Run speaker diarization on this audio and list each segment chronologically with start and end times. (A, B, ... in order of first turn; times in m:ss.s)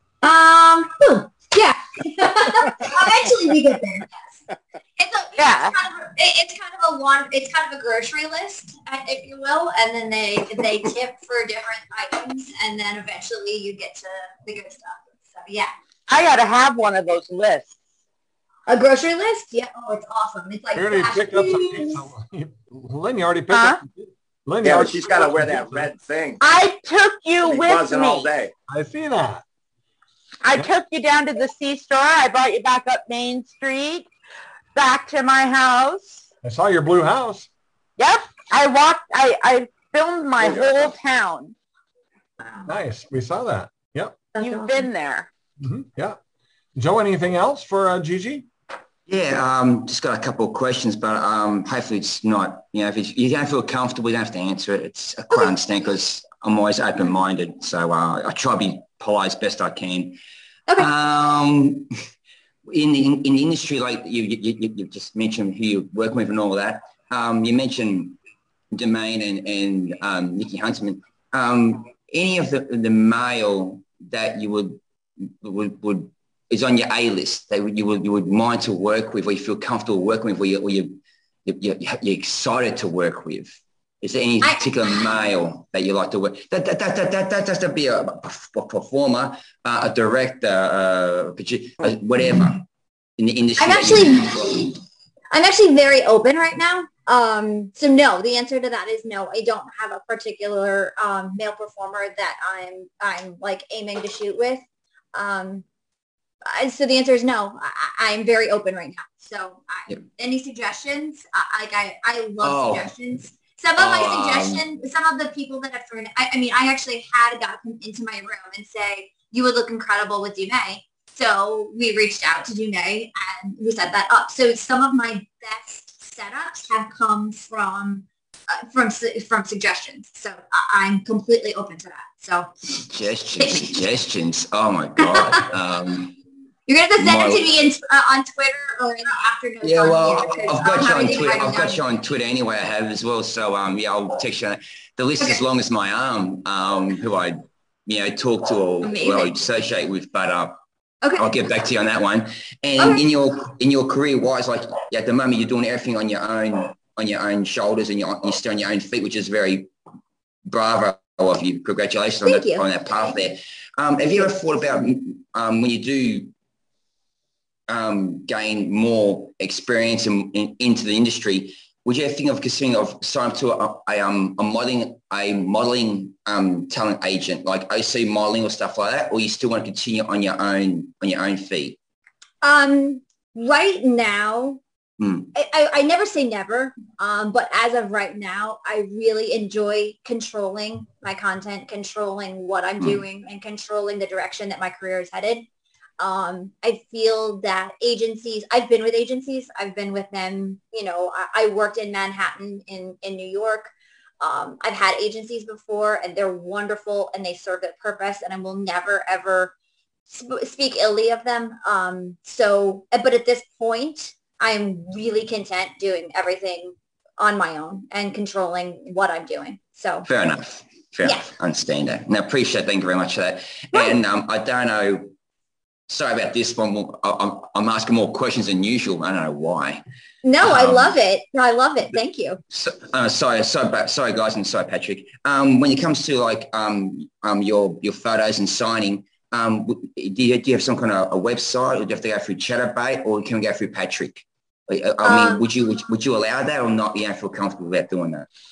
0:00.2-0:04.4 A
0:05.0-0:15.7 A
0:05.4-0:05.8 B
0:16.1-0:17.8 B
0:18.7-0:22.1 A
0:20.8-0:25.9 C
0:23.5-0:23.8 B
0:24.6-0:26.4 D
0:26.4-0:28.3 B
0:27.4-0:28.5 D
0:28.7-0:29.4 C
0:30.4-0:34.1 B
0:34.8-0:36.3 B
0:36.4-0:37.5 C
0:38.0-0:41.6 B
0:40.4-0:40.9 D
0:42.7-0:44.2 C
0:44.4-0:44.9 A
0:44.4-0:45.3 B
0:45.6-0:46.2 C
0:46.8-0:48.5 C
0:49.1-1:00.2 E
1:00.8-1:01.9 E
1:02.7-1:08.2 E
1:08.7-1:14.8 E
1:15.4-1:32.6 E
1:24.4-1:24.7 A
1:33.2-1:34.7 E
1:33.6-1:34.7 A
1:35.3-1:45.6 A
1:46.5-2:12.5 A
1:52.4-1:52.9 E
1:53.8-1:54.6 E
2:12.9-2:16.2 E
2:13.4-2:13.9 A
2:15.0-2:15.5 A
2:16.7-2:21.8 A
2:17.0-2:17.5 E
2:19.6-2:30.6 E
2:28.8-2:29.4 A
2:31.0-2:31.4 A
2:31.2-2:39.7 E
2:40.5-2:46.3 E
2:42.2-2:42.7 A
2:47.7-3:01.8 E
3:02.4-3:04.6 A
3:05.0-3:05.3 E
3:05.4-3:15.5 A
3:16.0-3:29.5 A
3:30.1-3:40.1 A
3:40.0-3:45.1 E
3:41.0-3:41.3 A
3:45.9-3:49.8 E
3:50.2-3:52.4 A
3:50.4-3:50.9 E
3:52.5-4:08.3 E
4:05.0-4:05.5 A